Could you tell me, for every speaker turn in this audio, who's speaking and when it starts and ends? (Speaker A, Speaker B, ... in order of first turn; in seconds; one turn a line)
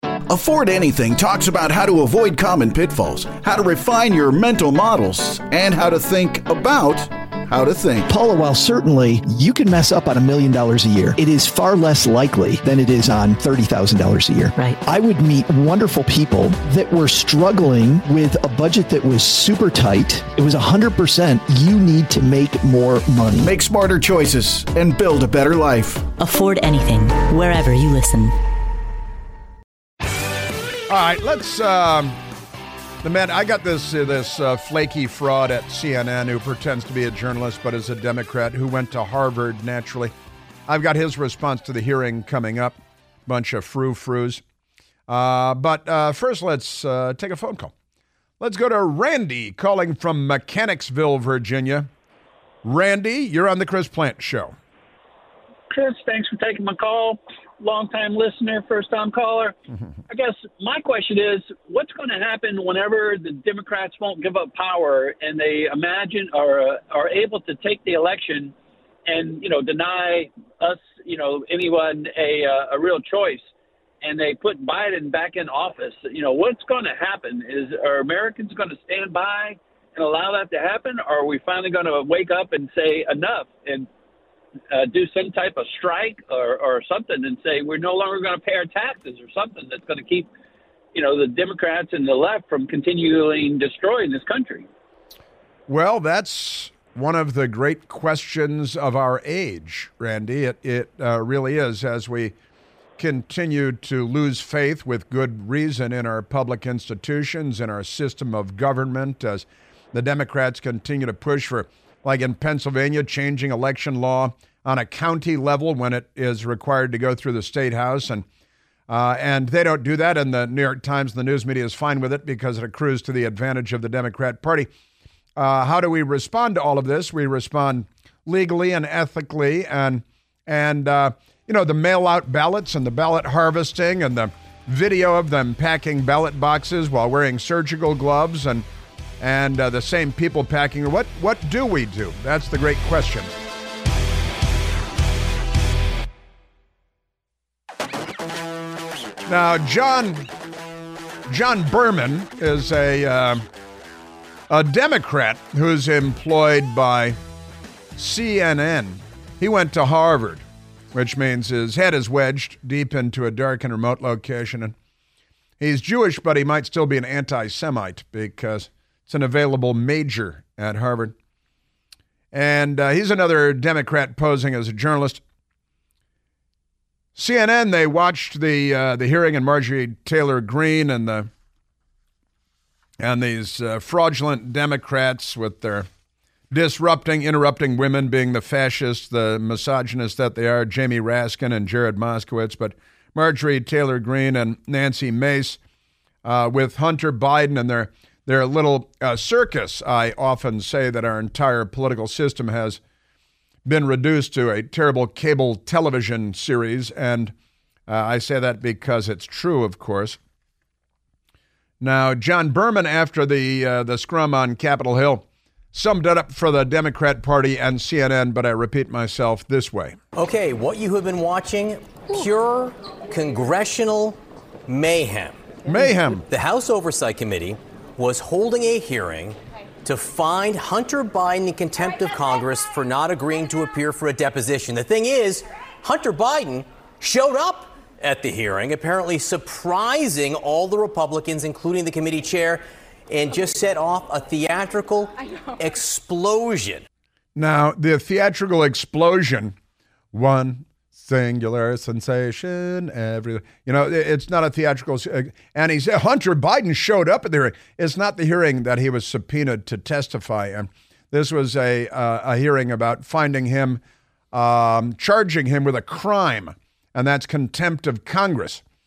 Speaker A: 0.3-8.1
Speaker B: 8.1-23.5
Speaker A: 23.4-26.1
Speaker C: 26.2-28.3
Speaker D: 30.9-32.2
Speaker D: 33.0-40.1
Speaker D: 40.7-44.4
Speaker D: 45.1-47.7
Speaker D: 48.4-51.9
Speaker D: 52.6-54.5
Speaker E: 55.7-59.5
Speaker E: 60.1-68.5
Speaker E: 69.1-73.5
Speaker E: 74.0-83.9
Speaker E: 84.7-90.3
Speaker E: 90.9-94.7
Speaker D: 95.7-102.3
Speaker D: 103.0-118.3
Speaker D: 118.9-124.7
Speaker D: 125.4-138.7
Speaker D: 139.2-143.3
Speaker D: 149.3-150.3
Speaker D: 151.3-153.4
Speaker D: 154.5-157.2
Speaker D: 158.0-164.8
Speaker D: 165.6-171.2
Speaker D: 172.3-175.2
Speaker D: 177.2-181.3
Speaker D: 183.0-185.9
Speaker D: 186.5-195.6
Speaker D: 196.2-202.8
Speaker D: 203.7-207.3
Speaker D: 207.9-210.2
Speaker D: 211.8-220.0
Speaker F: 220.2-225.4
Speaker D: 225.7-226.2
Speaker F: 226.3-246.8
Speaker D: 247.3-249.6
Speaker D: 250.1-268.6